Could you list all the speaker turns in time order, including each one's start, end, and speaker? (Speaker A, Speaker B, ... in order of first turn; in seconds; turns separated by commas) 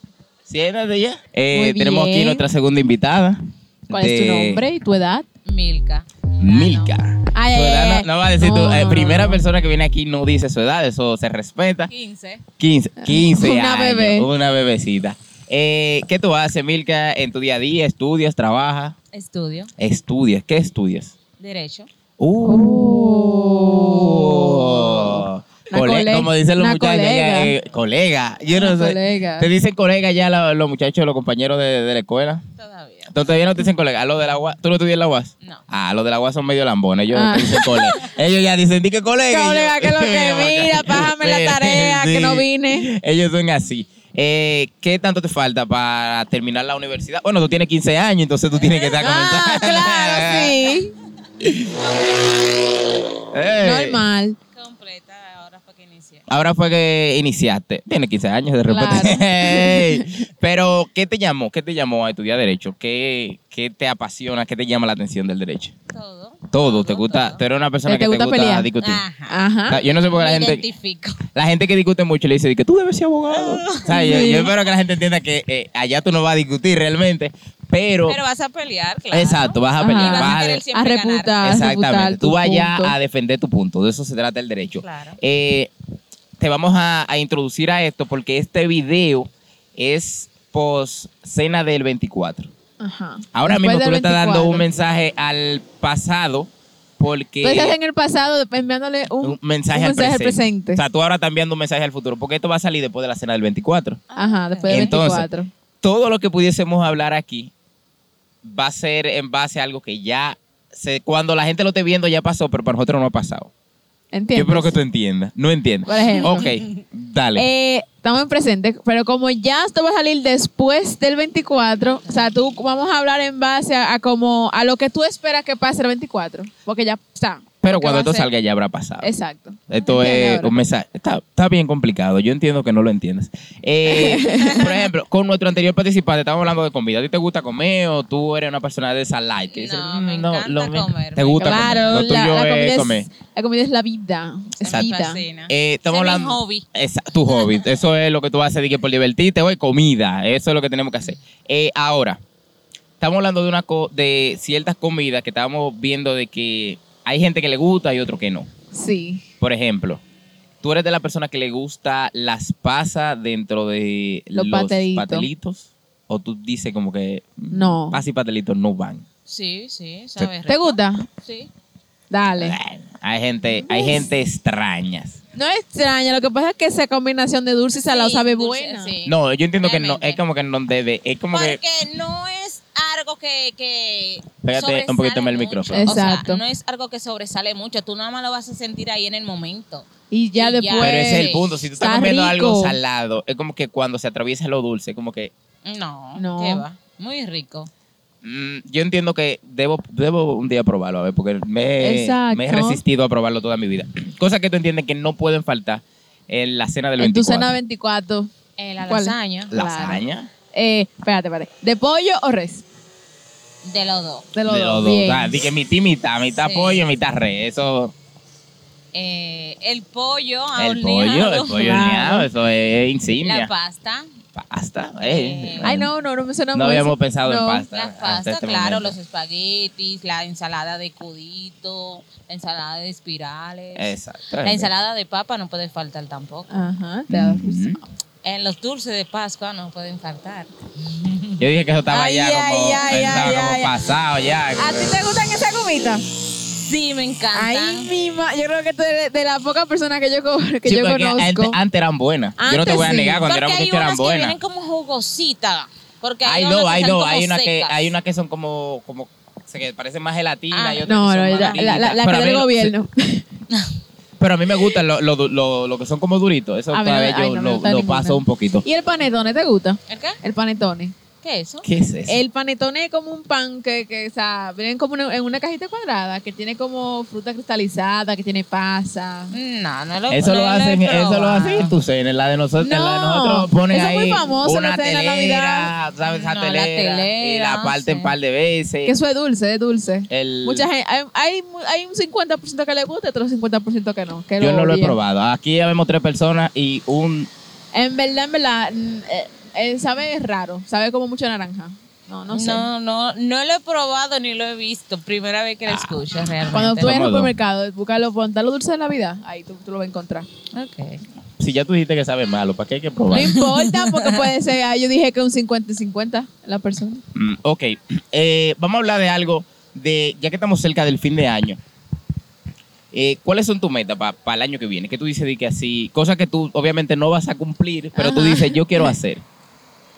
Speaker A: 0.5-4.6, Speaker B: 1.5-2.4, Speaker B: 3.9-5.2, Speaker C: 5.5-6.9, Speaker A: 6.4-11.9, Speaker B: 7.3-9.4, Speaker C: 11.9-12.4, Speaker A: 12.6-18.9, Speaker B: 13.0-14.3, Speaker C: 19.1-19.7, Speaker A: 19.8-21.1, Speaker C: 21.3-21.9, Speaker A: 22.2-32.4, Speaker B: 22.4-27.5, Speaker B: 28.5-29.5, Speaker C: 32.6-33.3, Speaker A: 33.1-50.5, Speaker B: 37.1-38.0, Speaker B: 39.3-42.9, Speaker C: 48.6-49.4, Speaker B: 49.0-50.9, Speaker A: 51.4-51.7, Speaker A: 53.3-54.0, Speaker B: 53.6-54.4, Speaker C: 54.5-56.2, Speaker A: 56.3-65.7, Speaker B: 58.7-60.1, Speaker C: 65.9-67.4, Speaker A: 66.5-69.0, Speaker B: 67.9-68.7, Speaker C: 68.8-71.2, Speaker B: 69.3-69.8, Speaker A: 69.7-70.7, Speaker A: 71.3-78.2, Speaker C: 73.3-74.0, Speaker B: 73.9-74.5, Speaker C: 78.0-81.5, Speaker A: 79.1-80.6, Speaker B: 79.8-82.9, Speaker A: 81.4-85.7, Speaker C: 84.8-85.2, Speaker A: 86.4-92.5, Speaker B: 92.8-94.6, Speaker A: 93.3-97.7, Speaker B: 97.4-100.8, Speaker A: 99.2-104.0, Speaker C: 104.1-105.1, Speaker B: 104.2-105.5, Speaker A: 104.7-105.3, Speaker A: 105.8-107.5, Speaker A: 108.4-113.5, Speaker B: 114.1-114.8, Speaker A: 114.3-117.5, Speaker B: 115.8-116.5, Speaker C: 116.2-116.5, Speaker B: 117.3-128.3, Speaker A: 127.6-129.1, Speaker B: 129.0-130.5, Speaker A: 129.7-143.1, Speaker B: 133.9-134.7, Speaker C: 139.5-141.9, Speaker B: 141.4-145.2, Speaker C: 144.6-146.6, Speaker A: 145.5-152.2, Speaker C: 147.3-147.6, Speaker A: 153.0-158.5, Speaker B: 158.7-159.2, Speaker A: 159.4-160.0, Speaker A: 160.6-169.0, Speaker B: 164.3-165.3, Speaker B: 167.5-168.0, Speaker C: 169.3-171.5, Speaker B: 170.5-171.1, Speaker B: 172.1-172.6, Speaker A: 172.4-175.2, Speaker B: 173.7-174.1, Speaker B: 175.3-178.9, Speaker C: 177.8-180.2, Speaker A: 179.0-181.6, Speaker C: 181.3-191.6, Speaker A: 184.4-185.8, Speaker B: 185.7-186.4, Speaker B: 190.1-192.8, Speaker A: 190.8-195.3, Speaker C: 195.7-197.7, Speaker B: 196.2-196.6, Speaker A: 198.2-207.5, Speaker B: 201.8-202.8, Speaker B: 207.0-208.3, Speaker C: 208.6-209.5, Speaker B: 208.8-210.0, Speaker A: 209.5-210.3, Speaker B: 210.5-212.6, Speaker C: 213.6-214.3, Speaker B: 214.3-215.4, Speaker A: 214.4-217.9, Speaker C: 216.4-216.9, Speaker C: 218.9-221.8, Speaker A: 220.6-223.5, Speaker B: 221.6-222.3, Speaker C: 223.2-224.1, Speaker A: 224.3-225.9, Speaker C: 225.0-225.8, Speaker B: 225.6-227.6, Speaker A: 226.5-228.9, Speaker C: 227.7-236.6, Speaker A: 233.7-234.7, Speaker B: 236.5-237.8, Speaker A: 237.1-237.8, Speaker C: 238.2-241.4, Speaker A: 241.4-245.0, Speaker B: 241.9-243.7, Speaker B: 244.6-246.0, Speaker C: 246.5-247.9, Speaker B: 247.3-251.6, Speaker A: 250.6-254.4, Speaker B: 252.4-253.2, Speaker C: 253.2-257.9, Speaker A: 256.2-262.7, Speaker C: 260.5-261.6, Speaker B: 260.9-263.2, Speaker A: 264.2-268.6, Speaker B: 266.7-270.9, Speaker C: 269.9-270.2, Speaker C: 271.2-271.6, Speaker A: 271.6-272.2, Speaker B: 272.1-279.3, Speaker C: 279.3-281.7, Speaker A: 280.1-288.9, Speaker B: 282.6-285.7, Speaker C: 286.1-288.1, Speaker B: 288.8-294.9, Speaker A: 290.1-290.6, Speaker A: 294.4-297.3, Speaker B: 297.7-302.7, Speaker C: 302.3-307.0, Speaker A: 305.7-307.3, Speaker B: 306.5-310.3, Speaker C: 310.5-311.0, Speaker A: 311.4-313.4, Speaker B: 313.1-317.0, Speaker C: 313.2-314.3, Speaker A: 317.1-321.6, Speaker A: 322.9-329.2, Speaker B: 327.9-328.5